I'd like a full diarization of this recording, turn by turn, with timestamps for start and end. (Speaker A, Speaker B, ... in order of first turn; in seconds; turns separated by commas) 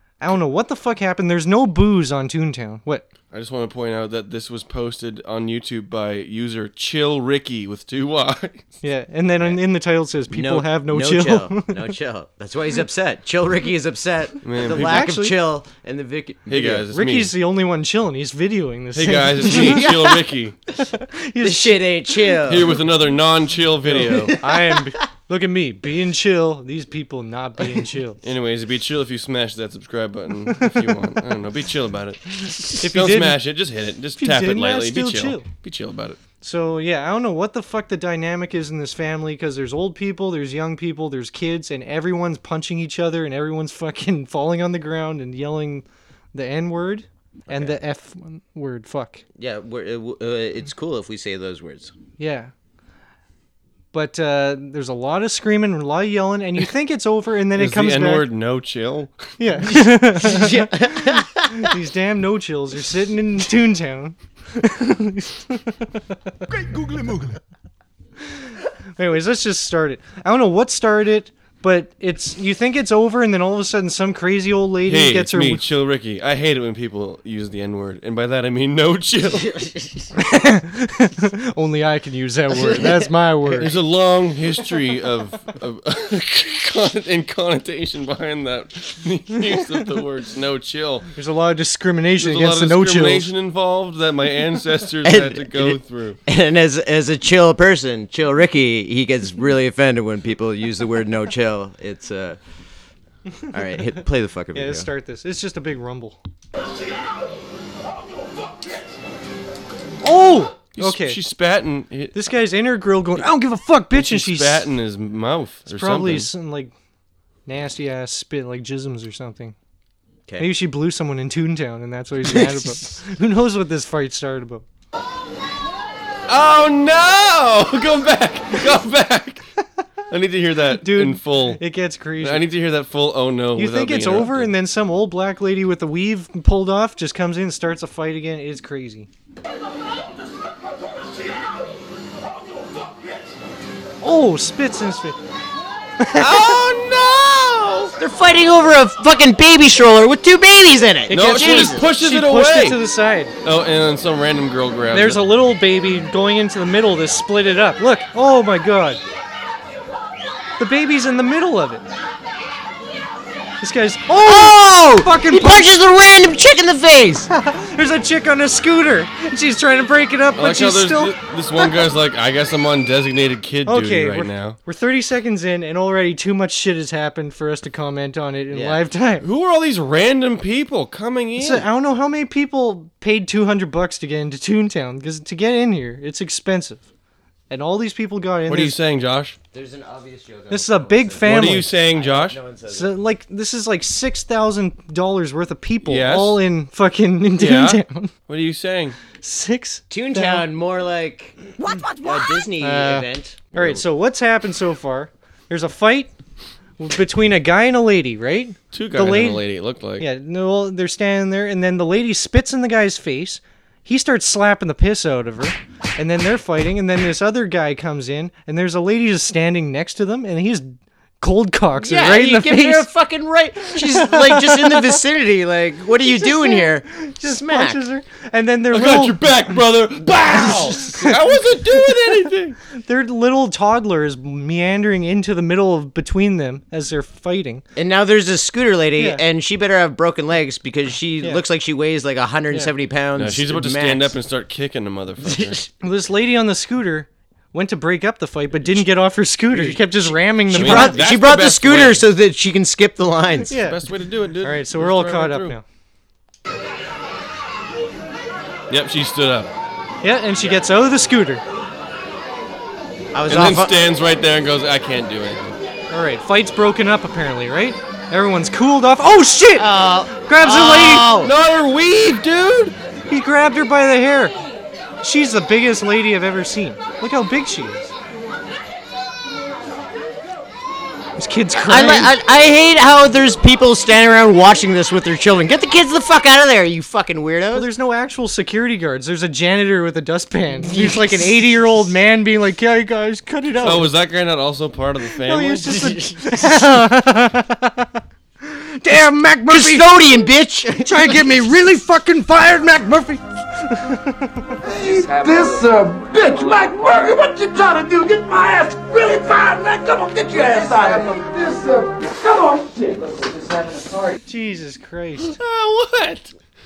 Speaker A: 0.2-3.1, Speaker B: 3.3-8.7, Speaker A: 8.8-11.9, Speaker C: 10.3-16.9, Speaker B: 14.4-15.2, Speaker A: 14.6-15.4, Speaker B: 16.5-17.3, Speaker A: 16.9-19.9, Speaker B: 18.9-20.6, Speaker C: 19.5-20.0, Speaker A: 20.8-22.4, Speaker C: 21.4-22.8, Speaker B: 22.4-24.4, Speaker A: 23.9-28.2, Speaker C: 24.0-24.7, Speaker B: 28.2-36.2, Speaker A: 30.6-30.9, Speaker A: 32.8-33.5, Speaker A: 34.2-35.5, Speaker A: 36.4-49.2, Speaker C: 47.5-47.7, Speaker C: 49.4-51.9, Speaker A: 52.2-52.5, Speaker A: 53.9-58.3, Speaker B: 57.5-59.3, Speaker A: 59.4-66.0, Speaker C: 59.6-61.7, Speaker D: 66.5-67.4, Speaker A: 69.0-75.6, Speaker B: 74.8-79.5, Speaker C: 79.5-80.0, Speaker A: 80.2-83.7, Speaker C: 82.6-82.9, Speaker B: 83.5-91.1, Speaker A: 91.1-93.3, Speaker B: 92.2-96.2, Speaker C: 95.0-102.4, Speaker C: 103.5-104.9, Speaker A: 104.5-106.2, Speaker A: 110.0-111.2, Speaker B: 110.8-112.2, Speaker A: 112.1-114.7, Speaker B: 113.9-116.3, Speaker A: 115.7-116.7, Speaker A: 117.5-119.5, Speaker A: 120.4-124.6, Speaker C: 122.2-122.8, Speaker B: 126.3-129.5, Speaker B: 130.1-131.6, Speaker A: 130.8-132.5, Speaker B: 132.2-134.5, Speaker A: 133.5-139.1, Speaker A: 144.0-145.2, Speaker A: 146.0-146.6, Speaker B: 146.2-147.9, Speaker C: 148.0-151.9, Speaker A: 151.1-153.3, Speaker B: 151.1-152.8, Speaker B: 153.4-155.3, Speaker A: 154.9-159.0, Speaker A: 160.6-161.8, Speaker A: 163.6-165.7, Speaker C: 164.1-167.3, Speaker A: 167.3-171.7, Speaker B: 170.3-174.6, Speaker A: 173.6-179.2, Speaker C: 178.5-178.8, Speaker B: 179.2-181.7, Speaker A: 181.4-186.8, Speaker A: 187.5-188.8, Speaker B: 188.5-189.4, Speaker C: 189.5-192.9, Speaker A: 190.5-191.7, Speaker B: 191.2-192.4, Speaker A: 192.7-198.1, Speaker B: 195.8-196.4, Speaker B: 197.3-198.9, Speaker A: 199.2-200.4, Speaker C: 199.9-203.4, Speaker A: 202.6-206.1, Speaker B: 203.5-203.8, Speaker A: 206.8-222.9, Speaker B: 208.7-210.1, Speaker C: 221.8-227.8, Speaker A: 223.9-225.0, Speaker A: 226.2-229.4, Speaker B: 228.7-232.6, Speaker C: 230.3-230.6, Speaker A: 230.8-231.2, Speaker A: 232.7-237.6, Speaker C: 237.8-244.1, Speaker A: 239.0-239.2, Speaker B: 243.1-245.6, Speaker C: 245.2-245.7, Speaker A: 245.8-251.0, Speaker C: 249.5-253.6, Speaker B: 250.5-252.1, Speaker A: 253.5-253.8, Speaker B: 253.5-255.6, Speaker A: 254.3-255.6, Speaker B: 258.7-259.5, Speaker A: 260.0-261.4, Speaker C: 263.1-263.8, Speaker B: 263.3-265.6, Speaker A: 265.9-271.1, Speaker C: 269.5-271.3, Speaker B: 271.1-272.8, Speaker A: 273.1-274.4, Speaker A: 275.0-277.9, Speaker A: 281.2-282.1, Speaker C: 281.6-287.7, Speaker A: 287.5-293.9, Speaker C: 290.6-291.4, Speaker B: 293.6-295.9, Speaker A: 295.2-297.9, Speaker C: 295.8-296.5, Speaker A: 298.4-300.0, Speaker C: 299.5-301.3, Speaker A: 300.8-304.5, Speaker D: 304.6-313.9, Speaker A: 314.2-315.4, Speaker B: 315.2-316.3